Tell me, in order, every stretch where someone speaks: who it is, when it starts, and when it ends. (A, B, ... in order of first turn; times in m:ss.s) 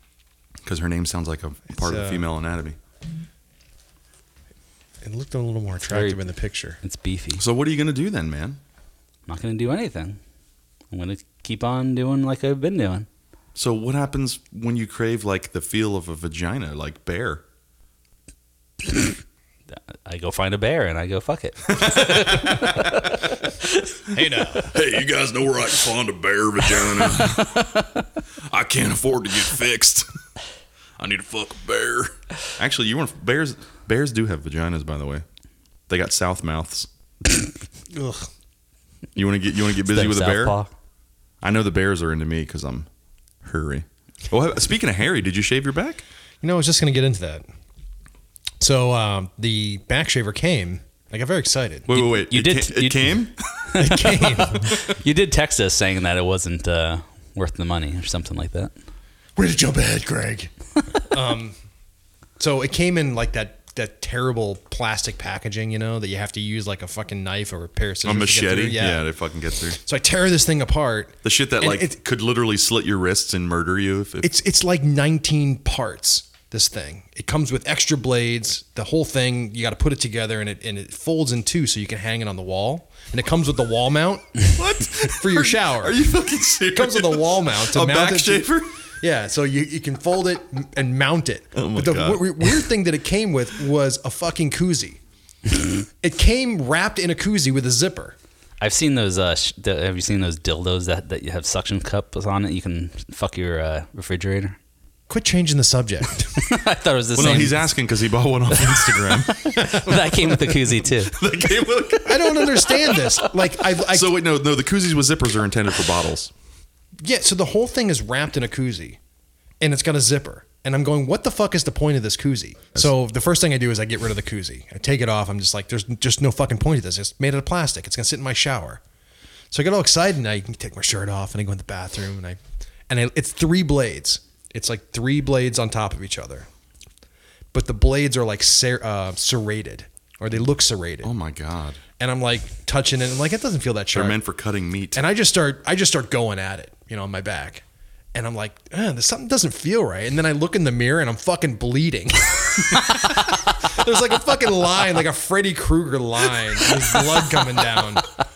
0:00.6-0:02.8 A
0:01.8-0:02.2 B
0:05.0-0:06.8 B
0:05.8-0:06.3 C
0:06.8-0:07.4 C
0:07.4-0:08.6 A
0:09.3-0:10.2 C
0:10.9-0:13.1 C
0:13.6-0:17.4 A
0:20.0-0:23.9 C
0:21.7-0:23.2 A
0:24.1-0:24.7 B
0:24.6-0:27.6 A
0:26.8-0:28.0 C
0:28.5-0:30.1 A
0:31.0-0:35.2 A
0:35.9-0:36.9 A
0:37.9-0:38.3 B
0:39.2-0:40.6 A
0:39.8-0:40.7 C
0:41.4-0:42.9 A
0:43.4-0:46.0 A
0:46.4-0:47.4 B
0:48.6-0:51.9 B
0:51.9-0:53.8 A
0:51.9-0:58.7 C
0:53.8-0:54.7 B
0:54.4-0:54.9 A
0:59.4-1:00.5 B
1:01.1-1:01.5 B
1:02.4-1:09.0 B
1:08.0-1:09.8 A
1:09.8-1:12.0 B
1:11.2-1:14.3 A
1:14.2-1:26.0 B
1:24.5-1:28.7 A
1:26.7-1:35.0 B
1:31.5-1:32.6 A
1:36.0-1:38.2 B
1:38.6-1:44.6 C
1:45.1-1:46.5 B
1:46.4-1:47.6 C
1:47.1-1:50.1 A
1:48.5-1:51.2 C
1:51.0-1:52.8 A
1:52.0-1:54.1 B
1:53.9-1:56.3 A
1:57.0-1:59.0 B
1:59.6-2:08.8 B
2:09.5-2:16.5 B
2:17.5-2:21.1 B
2:21.0-2:21.8 A
2:22.0-2:24.2 B
2:23.9-2:25.0 A
2:24.9-2:38.1 B